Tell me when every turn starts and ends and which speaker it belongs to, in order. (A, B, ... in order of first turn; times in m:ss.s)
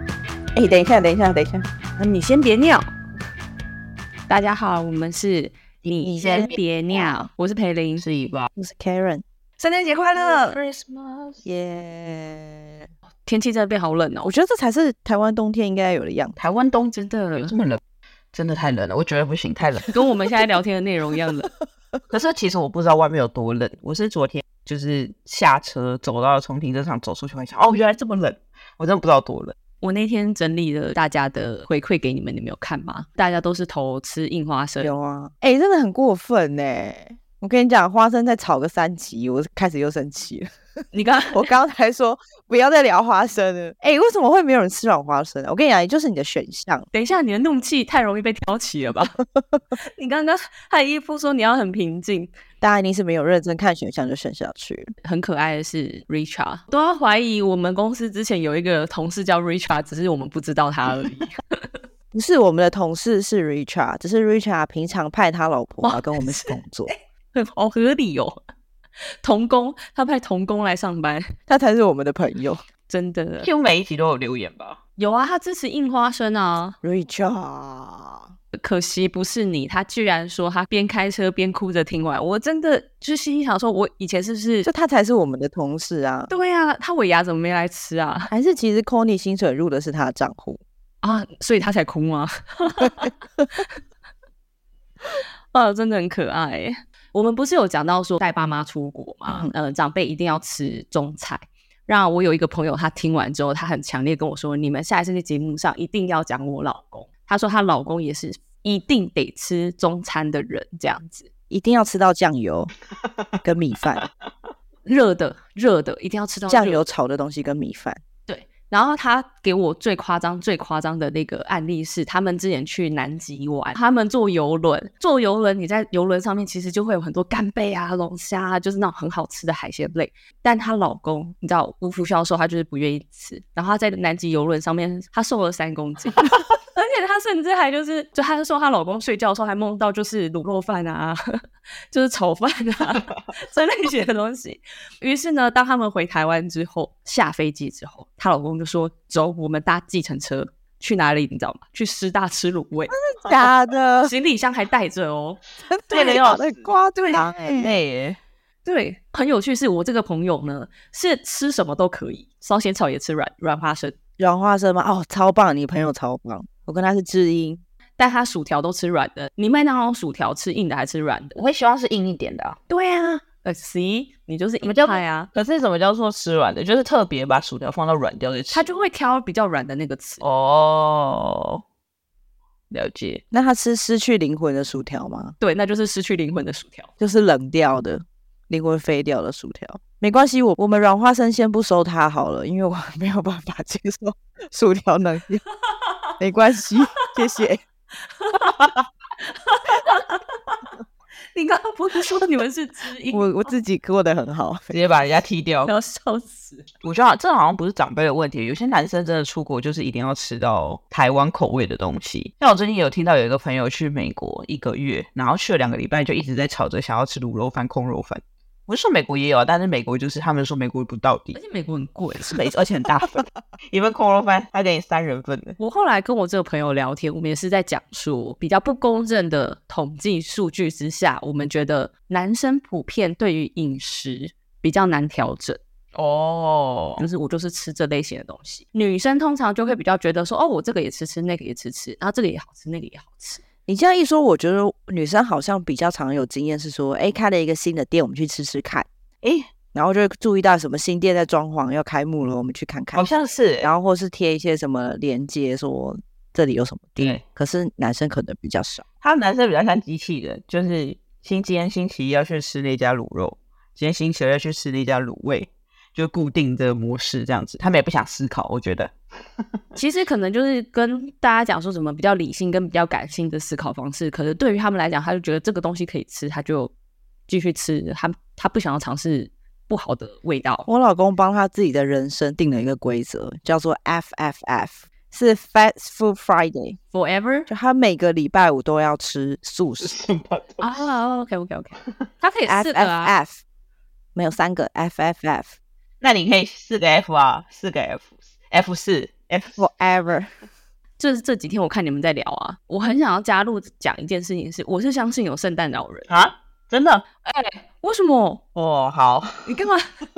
0:00.6-0:01.6 A
0:02.0-0:02.9 B
0:04.3-0:08.1 B
0:06.0-0:06.6 A
0:06.2-0:06.6 C
0:08.0-0:08.5 C
0:08.6-0:09.2 A
0:09.6-0:10.6 B
0:10.2-0:11.4 C
0:11.4-0:12.9 A
0:13.2-0:14.3 B
0:14.2-0:16.4 A
0:16.4-0:17.0 C
0:16.9-0:17.6 B
0:17.5-0:17.8 C
0:18.3-0:20.0 C
0:19.9-0:21.5 B
0:22.1-0:29.6 C
0:29.8-0:34.9 B
0:34.8-0:40.5 A
0:40.9-0:41.5 B
0:41.3-0:46.9 A
0:46.9-0:49.2 B
0:50.0-0:52.3 B
0:52.6-0:54.9 A
0:55.0-1:01.7 B
1:02.1-1:06.9 A
1:05.8-1:08.4 B
1:09.2-1:11.3 B
1:11.5-1:12.6 A
1:12.9-1:13.5 B
1:13.4-1:14.8 C
1:15.0-1:16.8 B
1:16.8-1:18.3 A
1:18.5-1:24.7 B
1:24.6-1:26.3 A
1:26.3-1:28.3 B
1:28.3-1:30.6 A
1:31.0-1:33.6 B
1:35.5-1:51.3 B
1:39.3-1:39.5 A
1:51.5-1:52.7 A
1:53.4-1:54.0 A
1:54.9-1:56.9 B
1:56.5-1:58.0 A
1:58.3-2:21.3 B
2:21.9-2:33.0 B
2:32.9-2:34.1 A
2:34.0-2:35.4 B
2:35.6-2:37.7 A
2:35.9-2:36.7 C
2:37.6-2:38.2 C
2:38.6-2:44.0 B
2:44.2-2:47.6 A
2:48.0-2:51.4 B
2:51.4-2:52.6 C
2:52.7-2:55.3 B
2:54.6-2:58.7 C
2:58.5-3:00.2 B
3:00.2-3:01.6 C
3:02.7-3:03.2 C
3:03.3-3:05.4 A
3:05.4-3:06.9 B
3:07.0-3:15.4 A
3:16.2-3:17.6 A
3:18.2-3:18.6 B
3:19.2-3:20.6 B
3:21.3-3:23.5 B
3:23.1-3:24.7 A
3:24.7-3:25.7 C
3:25.7-3:26.7 B
3:26.8-3:41.4 C
3:41.4-3:42.4 B
3:42.3-3:45.6 C
3:45.6-3:55.6 B
3:55.9-3:57.1 C
3:57.0-4:03.4 B
4:03.7-4:08.9 A
4:09.2-4:09.5 C
4:09.7-4:13.1 A
4:12.9-4:13.7 C
4:13.6-4:18.8 A
4:17.0-4:17.2 C
4:19.0-4:28.9 C
4:29.8-4:36.7 B
4:37.3-4:40.7 B
4:40.7-4:46.8 A
4:46.9-4:47.5 B
4:47.5-4:50.0 A
4:49.8-4:50.9 C
4:50.6-4:53.2 B
4:52.5-4:53.4 A
4:54.2-4:55.6 A
4:56.0-4:59.6 C
4:59.6-5:00.3 A
5:01.0-5:06.1 B
5:06.1-5:07.0 C
5:07.2-5:08.4 B
5:08.6-5:09.5 C
5:09.4-5:09.9 B